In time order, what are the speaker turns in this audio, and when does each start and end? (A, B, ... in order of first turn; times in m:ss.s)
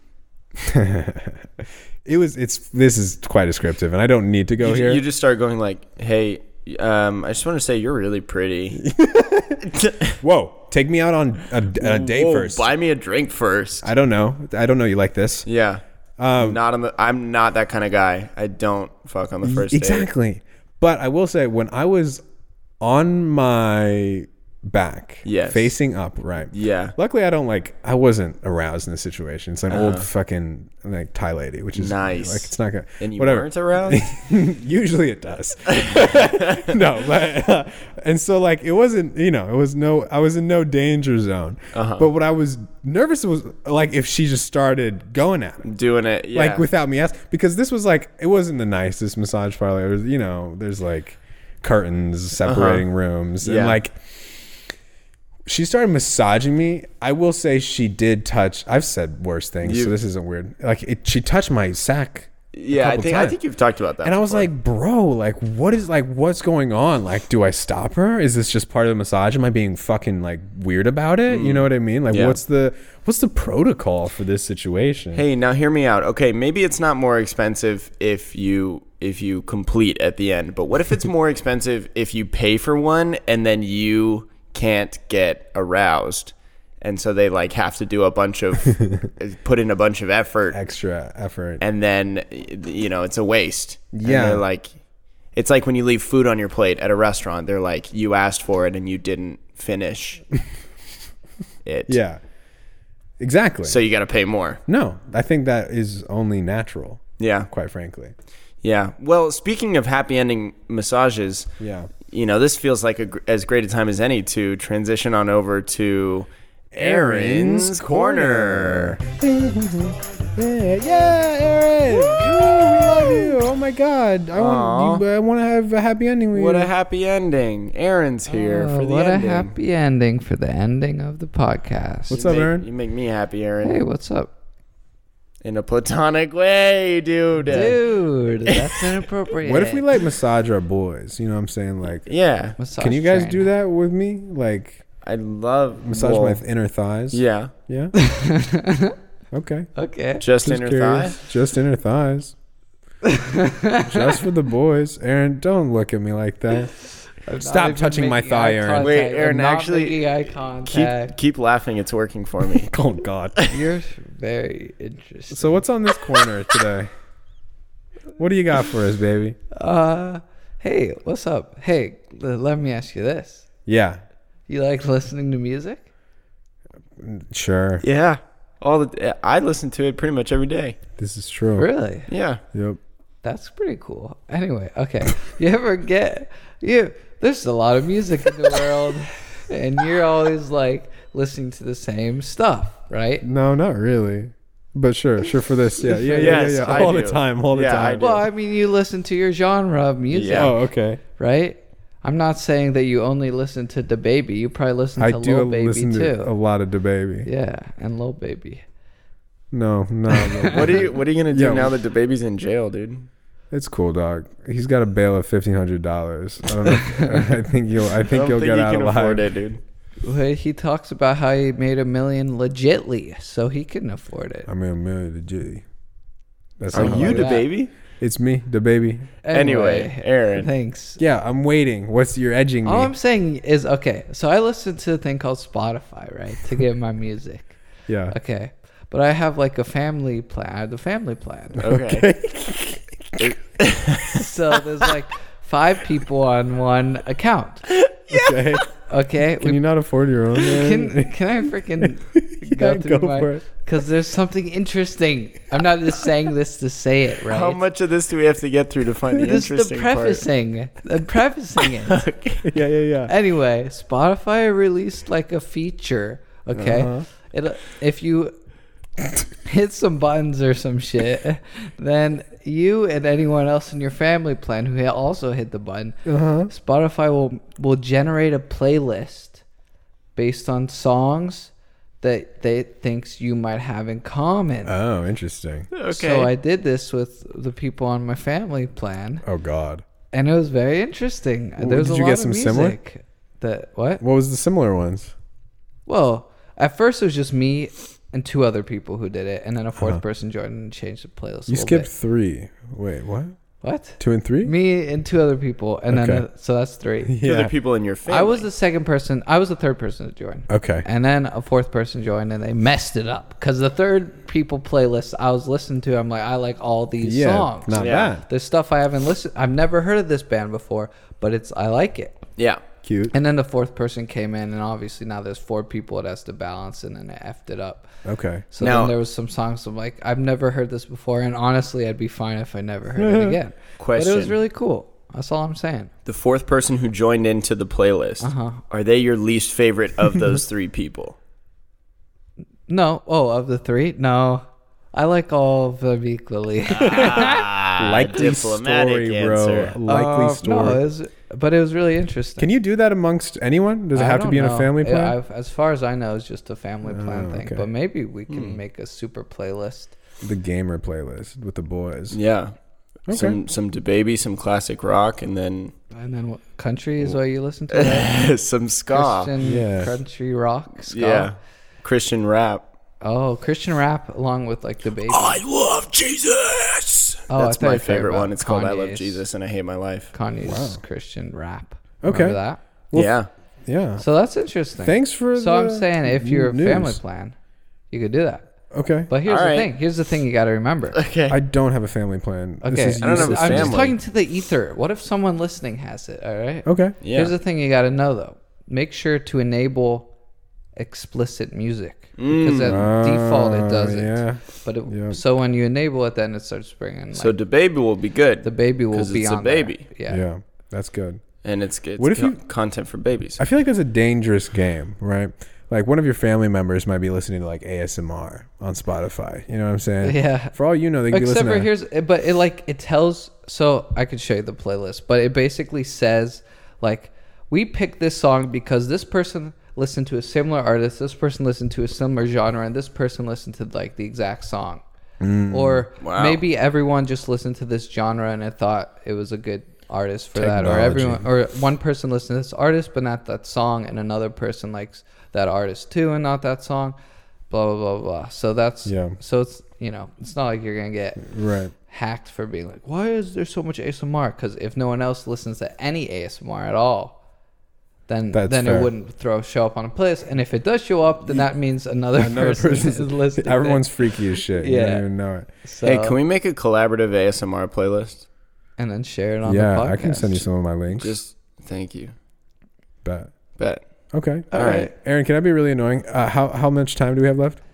0:00.6-0:05.0 A
0:04.6-0:08.8 B
0:08.8-0:12.7 A
0:09.6-0:10.2 B
0:11.7-0:13.9 B
0:13.8-0:15.5 A
0:15.5-0:15.8 B
0:16.2-0:16.6 A
0:16.4-0:20.1 B
0:19.4-0:22.2 A
0:22.8-0:45.6 A
0:25.2-0:25.8 B
0:26.5-0:27.0 B
0:29.7-0:30.1 B
0:31.8-0:34.0 B
0:35.7-0:36.8 B
0:41.7-0:42.1 B
0:45.6-0:46.7 B
0:46.3-0:54.2 A
0:52.4-0:52.9 B
0:53.4-0:53.8 B
0:55.5-1:03.4 A
0:59.6-1:00.0 B
1:02.5-1:04.5 B
1:04.0-1:15.2 A
1:11.3-1:12.4 B
1:15.1-1:30.6 B
1:28.7-1:29.1 A
1:30.5-1:31.6 A
1:31.6-1:34.7 B
1:33.9-1:34.4 A
1:35.4-1:40.2 B
1:41.6-1:42.0 B
1:41.9-1:42.2 A
1:43.2-1:43.8 A
1:43.6-1:44.6 B
1:44.7-1:48.1 A
1:47.2-1:47.5 B
1:48.6-1:51.5 B
1:51.6-1:51.9 A
1:52.1-1:59.0 B
1:56.7-2:06.7 A
2:04.4-2:05.0 B
2:06.3-2:09.5 B
2:08.3-2:12.2 C
2:12.1-2:12.7 A
2:12.1-2:13.8 B
2:13.6-2:14.3 C
2:15.4-2:17.8 B
2:17.5-2:19.9 C
2:18.5-2:18.8 B
2:19.4-2:22.1 A
2:22.0-2:22.6 B
2:22.6-2:23.5 C
2:22.8-2:24.8 A
2:25.0-2:26.4 B
2:25.8-2:27.9 A
2:27.1-2:27.5 B
2:28.0-2:29.0 C
2:29.3-2:29.7 A
2:29.8-2:30.2 C
2:30.2-2:31.2 B
2:30.4-2:32.4 A
2:33.0-2:34.2 C
2:33.8-2:36.7 A
2:37.2-2:41.1 C
2:37.4-2:38.9 A
2:38.8-2:42.7 B
2:42.5-2:43.4 A
2:43.5-2:45.6 C
2:45.3-2:46.9 A
2:48.2-2:49.4 A
2:49.5-2:53.5 C
2:53.7-2:54.0 A
2:54.5-2:55.8 C
2:57.0-2:57.8 A
2:57.8-3:00.8 B
3:01.0-3:01.7 A
3:01.6-3:02.1 C
3:02.1-3:02.4 B
3:02.5-3:02.8 A
3:03.2-3:13.2 C
3:13.2-3:18.2 A
3:15.8-3:17.0 C
3:16.2-3:18.2 B
3:18.0-3:20.6 C
3:20.1-3:20.5 B
3:20.3-3:21.0 A
3:21.2-3:26.3 C
3:25.0-3:27.3 A
3:27.2-3:28.6 C
3:29.5-3:31.8 A
3:30.1-3:30.7 C
3:30.4-3:33.1 B
3:33.5-3:39.3 A
3:36.7-3:37.3 C
3:38.1-3:39.6 B
3:40.0-3:44.5 C
3:44.5-3:45.6 A
3:46.6-3:47.4 A
3:46.7-3:47.5 C
3:46.7-3:47.7 B
3:48.0-3:49.1 A
3:49.2-3:51.0 C
3:49.3-3:50.5 B
3:51.0-3:52.9 A
3:52.6-3:57.6 C
3:57.9-3:58.2 A
3:58.1-4:01.7 C
4:01.6-4:02.1 B
4:01.6-4:03.3 A
4:03.2-4:04.3 B
4:04.1-4:07.7 C
4:07.7-4:08.4 B
4:08.1-4:08.7 A
4:08.8-4:09.6 C
4:09.4-4:11.2 A
4:10.4-4:17.6 C
4:11.8-4:13.4 A
4:17.3-4:20.3 B
4:19.2-4:22.0 C
4:21.6-4:22.5 B
4:22.4-4:23.1 A
4:23.1-4:28.3 C
4:26.6-4:26.8 B
4:26.6-4:27.1 A
4:29.4-4:39.4 C
4:36.1-4:36.5 A
4:40.2-4:41.5 C
4:42.0-4:44.8 C
4:44.6-4:45.7 A
4:45.7-4:46.3 B
4:45.9-4:49.2 C
4:49.2-4:49.8 A
4:50.1-4:54.0 C
4:51.6-4:52.8 A
4:54.0-4:55.1 A
4:55.9-5:01.9 C
4:59.8-5:00.0 A
5:01.5-5:03.4 A
5:03.6-5:07.2 C
5:04.0-5:04.5 A
5:05.9-5:06.2 A
5:07.1-5:07.5 A
5:07.2-5:08.5 B
5:08.1-5:22.2 C
5:10.5-5:10.9 A
5:17.0-5:18.3 A
5:17.7-5:18.1 B
5:22.4-5:22.6 B
5:22.8-5:23.2 A
5:23.1-5:27.9 C
5:28.0-5:28.5 A
5:28.5-5:35.9 C
5:28.6-5:29.0 B
5:33.0-5:33.4 A
5:33.8-5:34.4 B
5:36.1-5:41.2 B
5:38.2-5:38.6 C
5:42.7-5:47.5 C
5:46.7-5:49.8 B
5:46.8-5:50.8 A
5:49.9-5:52.5 C
5:52.4-5:55.2 A
5:54.0-6:00.0 C
5:56.8-5:57.7 A
5:58.3-5:58.6 B
6:00.2-6:02.2 A
6:02.1-6:02.5 B
6:03.1-6:03.4 A
6:03.1-6:05.7 B
6:05.9-6:08.1 C
6:07.7-6:09.3 B
6:08.9-6:11.3 C
6:09.4-6:09.9 A
6:10.9-6:12.6 B
6:13.0-6:15.4 C
6:15.1-6:20.1 B
6:17.3-6:19.2 C
6:20.1-6:22.6 C
6:20.4-6:20.8 A
6:22.0-6:22.4 A
6:22.9-6:23.3 B
6:23.7-6:24.0 A
6:24.0-6:27.3 C
6:24.8-6:27.0 A
6:27.9-6:28.5 C
6:28.7-6:29.1 A
6:29.1-6:31.0 C
6:29.2-6:29.7 B
6:30.9-6:31.4 B
6:31.3-6:33.9 A
6:32.6-6:40.1 C
6:33.0-6:34.0 B
6:36.7-6:37.0 A
6:37.0-6:37.3 B
6:40.8-6:47.4 C
6:42.2-6:42.8 B
6:42.7-6:45.2 A
6:47.1-6:49.8 B
6:48.4-6:50.2 C
6:50.1-6:51.2 A
6:51.4-6:53.4 B
6:52.0-6:52.4 A
6:53.4-7:01.7 A
7:00.0-7:00.6 C
7:01.1-7:14.8 C
7:15.2-7:15.8 A
7:15.5-7:27.0 C
7:16.0-7:16.4 B
7:20.4-7:21.3 A
7:27.5-7:31.3 C
7:28.8-7:29.2 A
7:31.2-7:31.7 A
7:31.9-7:37.2 C
7:38.1-7:45.1 C
7:38.3-7:38.9 A
7:42.2-7:45.5 A
7:45.6-7:46.2 C
7:45.8-7:48.3 B
7:48.8-7:50.5 C
7:49.5-7:51.2 A
7:50.9-7:52.1 B
7:53.0-7:53.3 A
7:53.6-7:53.8 B
7:54.1-7:57.6 A
7:54.5-7:54.9 C
7:54.6-7:54.9 B